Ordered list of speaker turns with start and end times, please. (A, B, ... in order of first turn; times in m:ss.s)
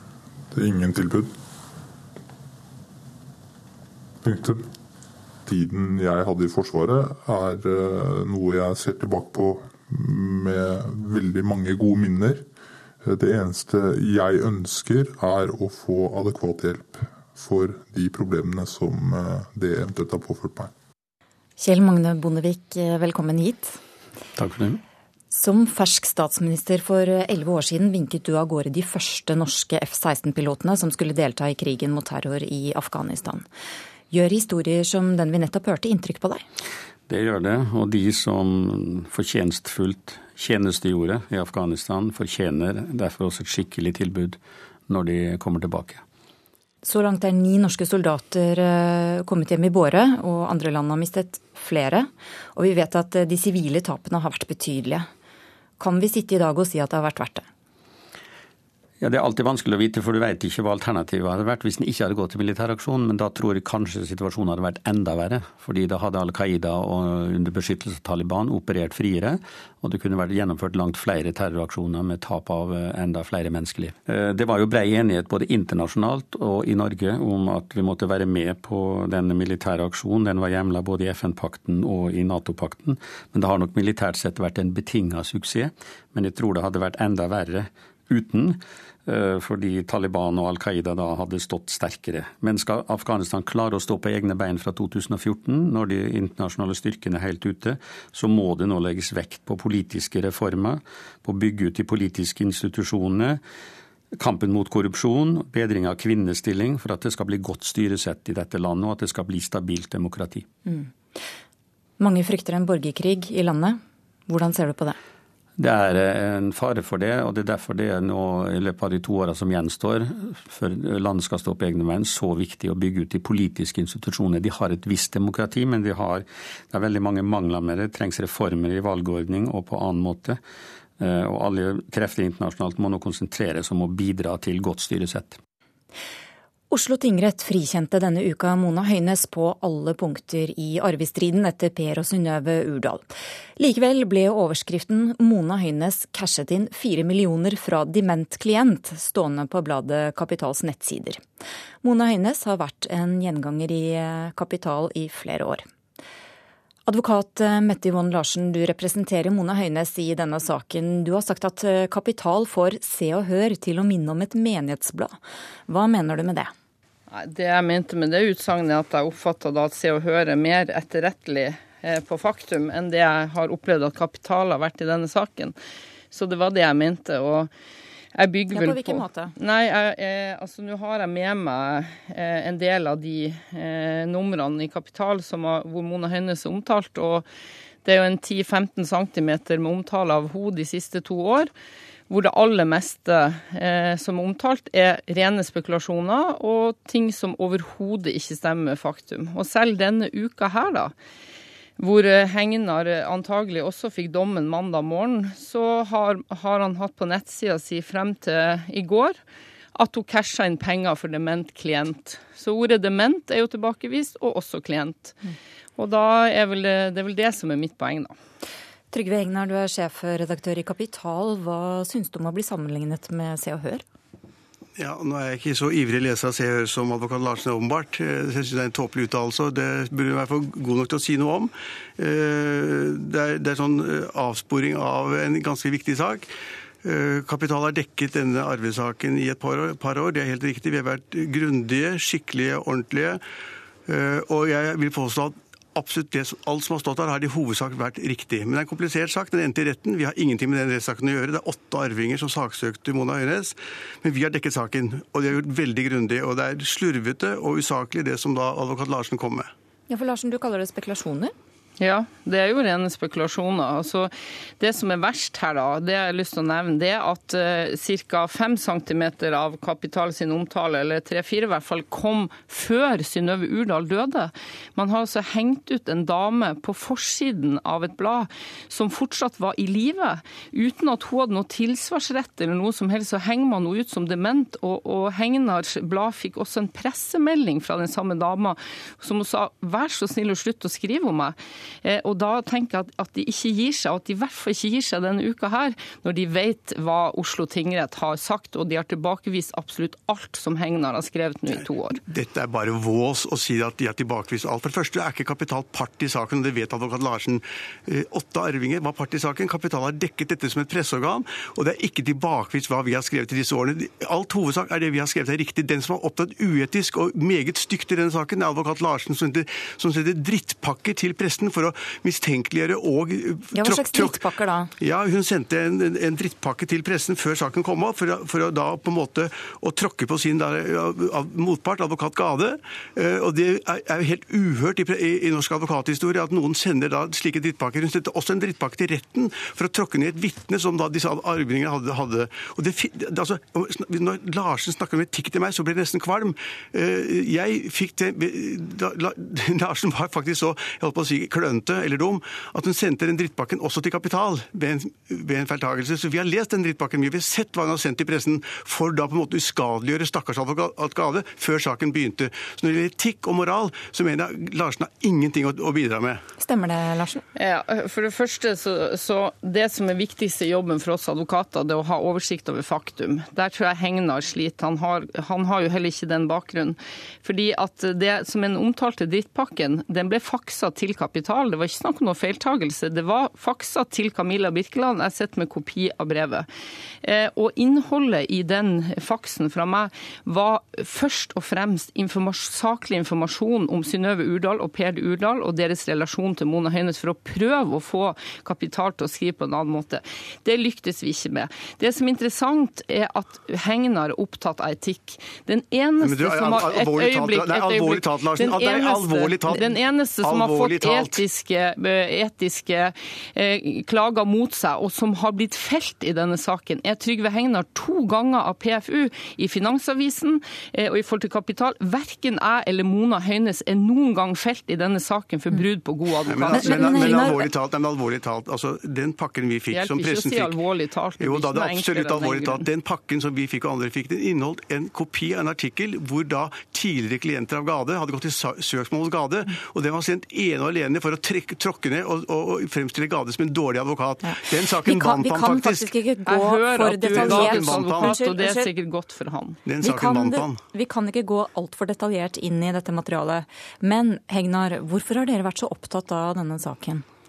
0:00.5-0:01.3 A
0:04.2-0:04.6 A
0:05.5-0:12.4 A
0:13.0-0:20.7 A
0:21.6-0:23.8 B
0:24.4-0:24.8 C
0:25.3-0:33.4 B
0:34.1-0:36.4 B
0:37.1-0:46.0 C
0:46.8-0:55.1 B
0:55.8-0:57.5 B
0:59.0-1:43.4 C
1:44.2-1:50.5 C
1:50.7-1:50.9 B
1:52.0-1:55.0 B
1:55.6-2:10.4 C
2:11.0-2:15.4 C
2:16.7-2:23.0 B
2:23.6-2:31.2 B
2:31.8-2:35.6 B
2:36.9-2:46.5 B
2:47.1-2:55.6 D
2:56.1-2:57.5 D
2:58.2-3:07.3 D
2:58.5-2:59.3 B
3:07.8-3:11.5 D
3:12.1-3:20.9 D
3:21.8-3:29.2 D
3:29.8-3:35.2 D
3:35.8-3:38.1 D
3:38.9-3:43.8 B
3:44.8-3:56.3 E
3:56.8-4:03.2 E
4:03.9-4:19.5 E
4:19.9-4:21.3 B
4:21.8-5:02.0 D
5:01.5-5:24.2 E
5:23.5-5:24.7 B
5:24.8-6:06.2 E
6:06.4-6:07.2 B
6:07.4-6:26.5 D
6:27.0-7:07.5 D
6:46.0-6:51.2 E
7:06.2-7:10.6 E
7:06.5-7:07.4 B
7:09.7-7:12.7 D
7:11.2-7:25.9 E
7:24.2-7:28.7 B
7:26.2-7:29.6 D
7:27.0-7:28.1 E
7:29.6-7:30.6 E
7:29.8-7:37.0 B